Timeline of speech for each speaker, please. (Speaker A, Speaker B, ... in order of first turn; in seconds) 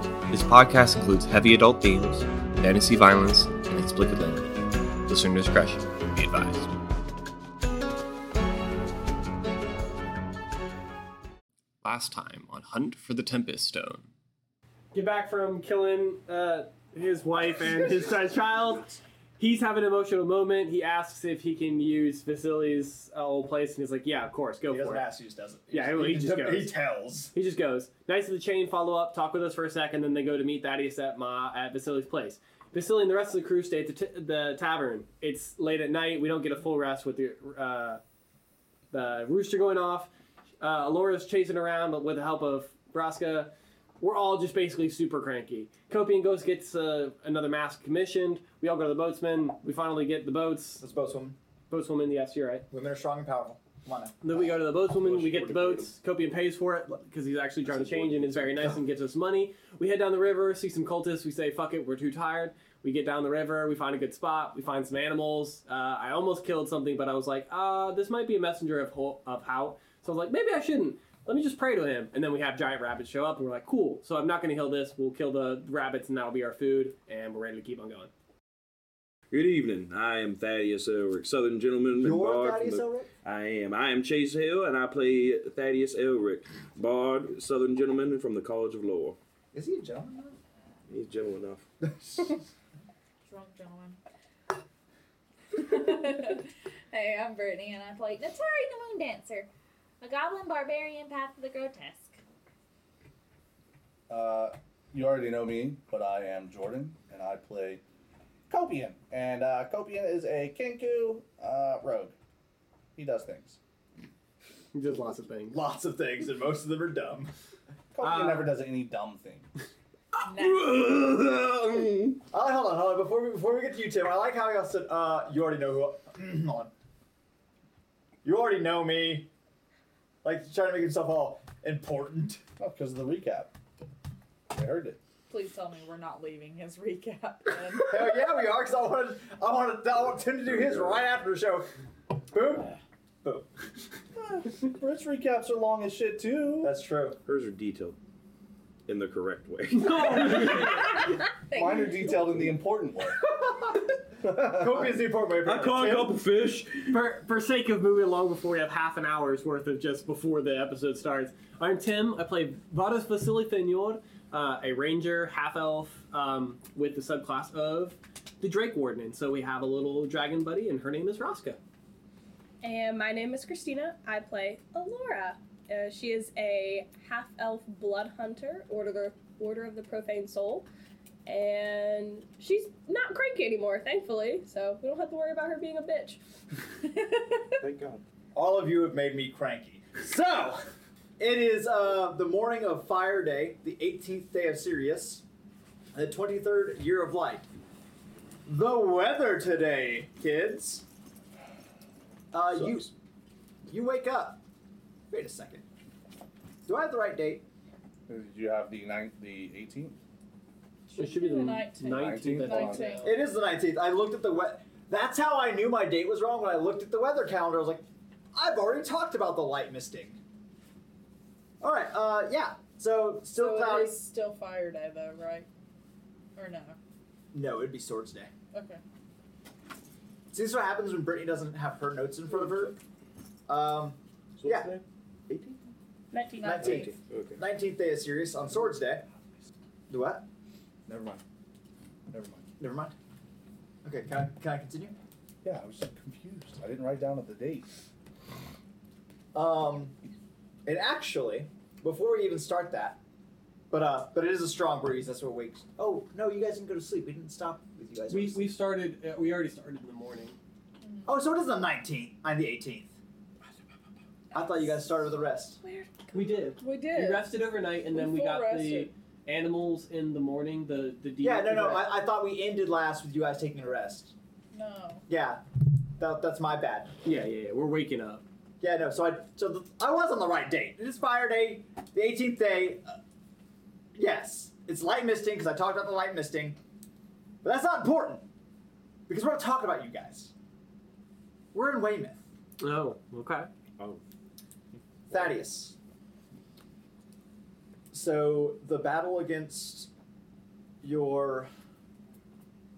Speaker A: 0.3-4.5, 5.1-6.7, 11.8-14.1
Speaker B: 14.9-25.1, 25.7-26.7, 27.3-38.0, 38.9-40.1, 40.6-50.8, 51.7-52.7, 54.2-78.1, 114.7-115.6, 149.8-151.0, 156.9-171.6, 211.0-213.0, 258.1-260.4, 266.1-271.9, 277.0-278.2, 292.6-293.5
Speaker C: 24.7-27.3, 50.8-51.4, 52.7-54.2, 82.0-83.1, 89.5-90.4, 91.8-92.3, 115.5-117.3, 122.3-126.7, 128.2-129.3, 130.2-132.4, 137.8-141.7, 142.3-143.5, 146.6-147.2, 153.3-153.8, 154.4-156.2, 188.3-195.2, 195.9-197.5, 198.4-200.8, 202.3-202.9, 203.7-204.4, 205.1-205.6, 206.7-207.4, 213.0-220.2, 221.6-224.0, 227.3-228.3, 230.3-232.8, 233.5-234.8, 236.4-239.1, 239.9-240.3, 242.5-242.9, 243.8-245.0, 249.3-249.9, 250.7-253.0, 253.7-258.5, 261.1-262.9, 264.3-265.6, 271.2-274.1, 275.1-275.4, 276.0-276.9, 278.6-283.0, 283.9-286.6, 287.4-288.2, 289.1-290.3, 291.5-292.2, 295.1-295.8, 297.9-299.9, 300.8-301.5
Speaker D: 55.0-55.9, 57.6-58.7, 79.3-89.2, 90.9-91.7, 120.1-122.2, 140.5-141.0, 147.2-148.0, 148.9-151.2, 155.4-157.0, 187.6-188.0, 202.5-202.9, 234.4-235.6, 236.6-237.4
Speaker E: 93.2-94.0, 95.5-99.5, 100.0-102.2, 120.2-120.7, 135.3-137.9, 151.0-152.5, 210.9-213.2, 223.3-225.5, 226.3-226.8, 228.5-228.8, 236.4-236.8, 266.6-267.4, 267.9-268.9, 274.5-275.1
Speaker F: 104.1-107.8, 108.5-112.1, 112.9-113.6, 117.9-119.5, 132.6-133.5, 134.5-135.0, 144.2-146.8, 151.5-153.2, 154.2-154.9, 208.1-210.0, 211.8-213.1, 240.9-241.2, 242.1-242.4, 245.4-247.7
Speaker G: 172.6-180.7, 181.2-186.2, 236.1-237.0, 265.6-266.5